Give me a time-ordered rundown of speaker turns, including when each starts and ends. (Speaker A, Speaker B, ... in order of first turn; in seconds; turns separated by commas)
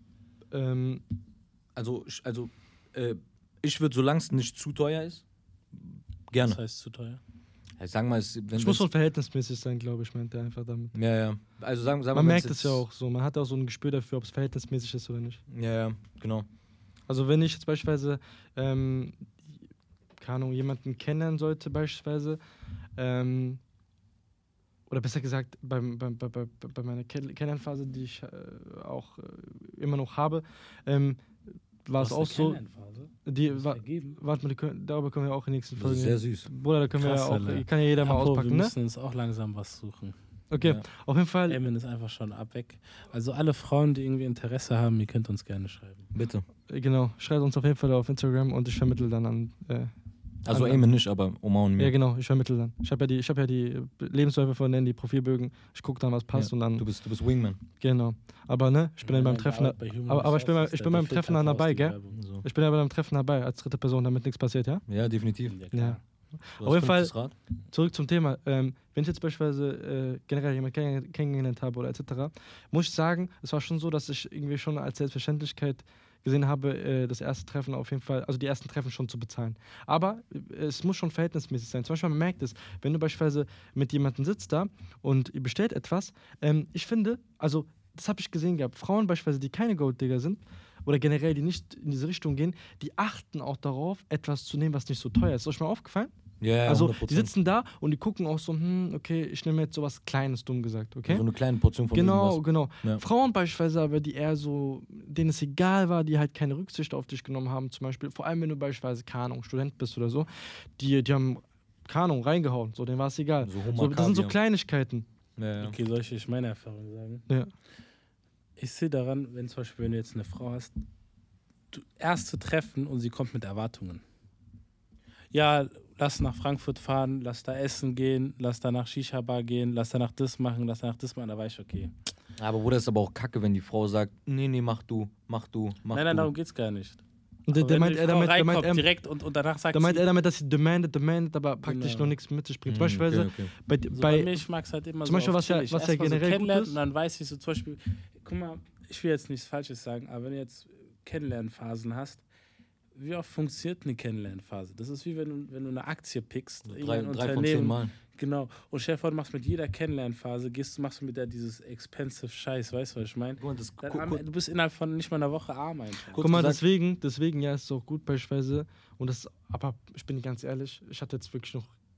Speaker A: 0.5-1.0, Speaker B: 1.8-5.2, Speaker B: 5.8-6.6, Speaker C: 6.4-7.2, Speaker B: 7.8-8.9, Speaker A: 8.5-10.9, Speaker B: 10.9-12.8, Speaker A: 12.1-15.4, Speaker B: 15.5-16.5, Speaker A: 17.1-19.6, Speaker A: 20.2-22.4, Speaker A: 23.0-23.6, Speaker A: 24.9-31.2, Speaker A: 31.9-32.6, Speaker C: 32.0-34.2, Speaker A: 33.2-38.7, Speaker B: 35.8-36.5, Speaker C: 37.0-40.2, Speaker A: 40.5-41.6, Speaker C: 41.5-46.1, Speaker B: 46.1-46.5, Speaker A: 46.7-49.9, Speaker B: 50.4-51.9, Speaker A: 50.5-50.9, Speaker A: 51.8-56.9, Speaker B: 56.3-57.6, Speaker A: 57.8-64.8, Speaker C: 59.0-62.2, Speaker B: 62.2-62.5, Speaker B: 64.9-65.6, Speaker C: 65.5-66.0, Speaker A: 65.7-66.0, Speaker A: 66.5-67.1, Speaker B: 66.6-67.3, Speaker A: 67.7-96.1, Speaker B: 96.4-97.3, Speaker A: 96.7-101.2, Speaker B: 101.1-103.0, Speaker A: 101.9-115.1, Speaker B: 113.4-114.4, Speaker B: 115.4-115.8, Speaker C: 115.6-117.3, Speaker C: 118.6-120.7, Speaker C: 121.7-124.0, Speaker C: 125.3-131.9, Speaker B: 132.4-136.3, Speaker C: 135.9-137.0, Speaker A: 137.5-138.9, Speaker C: 137.5-140.1, Speaker A: 139.7-144.4, Speaker C: 141.6-142.1, Speaker B: 142.7-143.5, Speaker C: 143.9-152.2, Speaker A: 145.0-146.8, Speaker C: 152.9-166.2, Speaker B: 156.7-157.9, Speaker B: 163.4-164.2, Speaker B: 166.1-166.6, Speaker A: 166.2-171.7